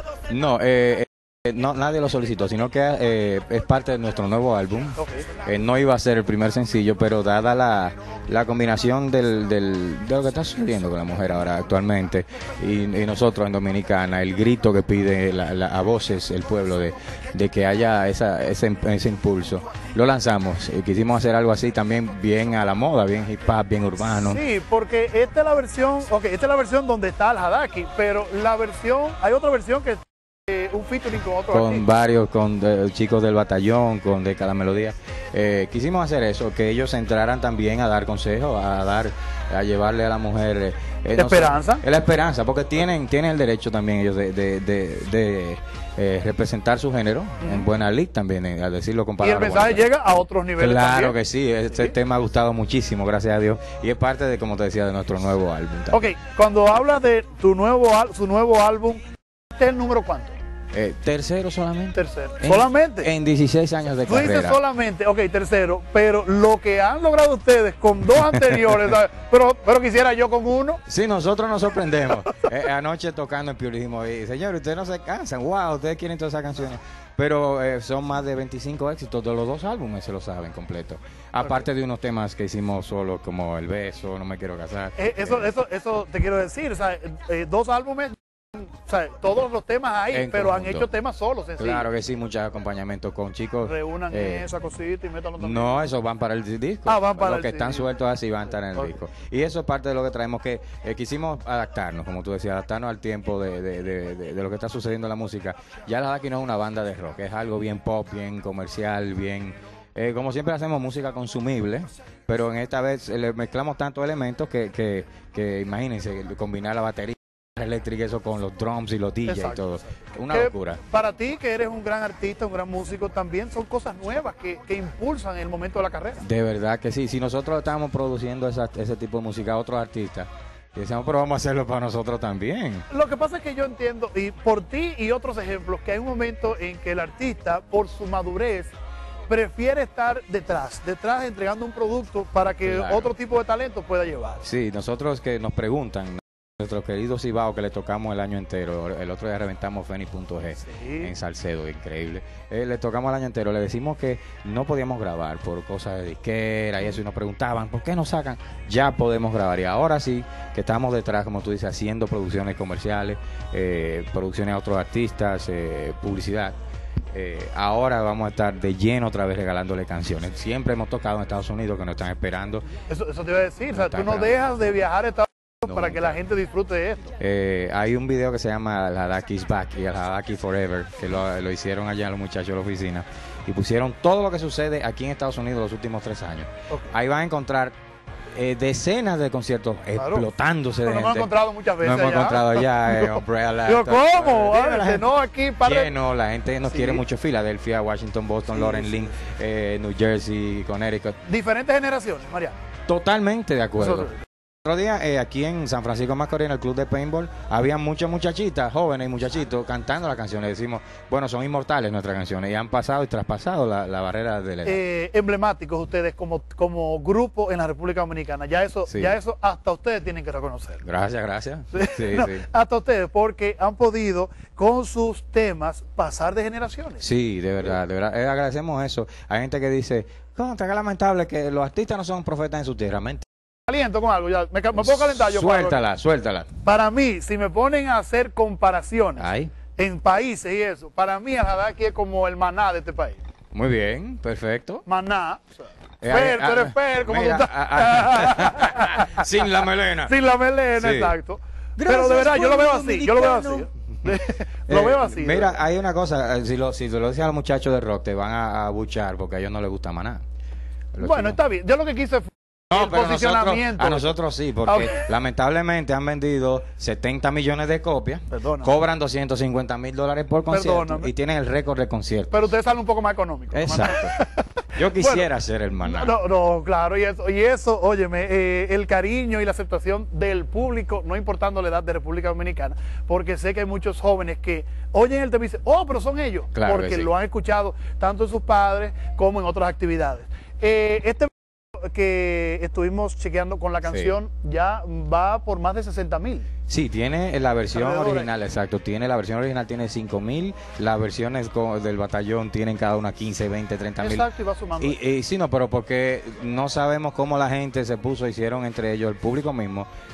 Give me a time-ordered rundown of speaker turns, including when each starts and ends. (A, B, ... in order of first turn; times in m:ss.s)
0:00.3-0:24.4 A
0:05.0-0:05.3 B
0:24.2-0:31.8 B
0:31.5-0:49.9 A
0:41.2-0:41.8 B
0:49.2-0:51.2 B
0:50.6-0:56.1 A
0:55.9-0:59.0 B
0:59.6-1:00.4 B
1:00.7-1:04.6 A
1:02.0-1:03.1 B
1:04.0-1:10.8 B
1:10.9-1:25.5 A
1:25.0-1:31.9 B
1:30.1-1:30.9 A
1:31.6-1:34.5 A
1:33.6-1:35.9 B
1:35.4-2:00.8 A
1:36.9-1:37.9 B
1:59.3-2:06.2 B
2:06.2-2:12.9 A
2:12.9-2:18.7 B
2:19.3-2:24.4 B
2:22.6-2:23.1 A
2:24.4-2:46.6 A
2:30.6-2:31.1 B
2:47.1-2:52.7 A
2:52.9-2:57.1 B
2:53.7-2:54.4 A
2:55.6-2:56.2 A
2:57.2-3:07.8 A
3:08.3-3:15.1 A
3:10.0-3:10.3 B
3:10.8-3:16.0 B
3:15.6-3:21.2 A
3:16.6-3:17.0 B
3:18.6-3:19.0 B
3:21.3-3:22.6 B
3:22.9-3:24.1 A
3:23.8-3:24.1 B
3:24.6-3:34.8 A
3:34.6-3:40.8 B
3:38.9-3:39.2 A
3:40.8-3:42.5 A
3:41.7-3:47.0 B
3:47.0-3:53.3 A
3:53.7-3:55.8 B
3:54.8-3:56.5 A
3:56.6-4:03.2 B
3:59.2-3:59.5 A
4:03.5-4:04.8 A
4:04.9-4:09.3 B
4:06.0-4:10.2 A
4:10.1-4:15.6 B
4:10.8-4:11.1 A
4:11.8-4:20.2 A
4:20.9-4:21.4 A
4:21.0-4:25.0 B
4:22.7-4:32.5 A
4:28.3-4:28.7 B
4:30.5-4:31.1 B
4:32.3-4:34.3 B
4:33.5-4:34.2 A
4:34.8-4:36.2 A
4:35.0-4:35.3 B
4:35.8-4:56.5 B
4:46.5-4:47.1 A
4:56.7-5:04.3 A
4:57.7-4:58.3 B
5:04.0-5:05.0 B
5:04.8-5:09.9 A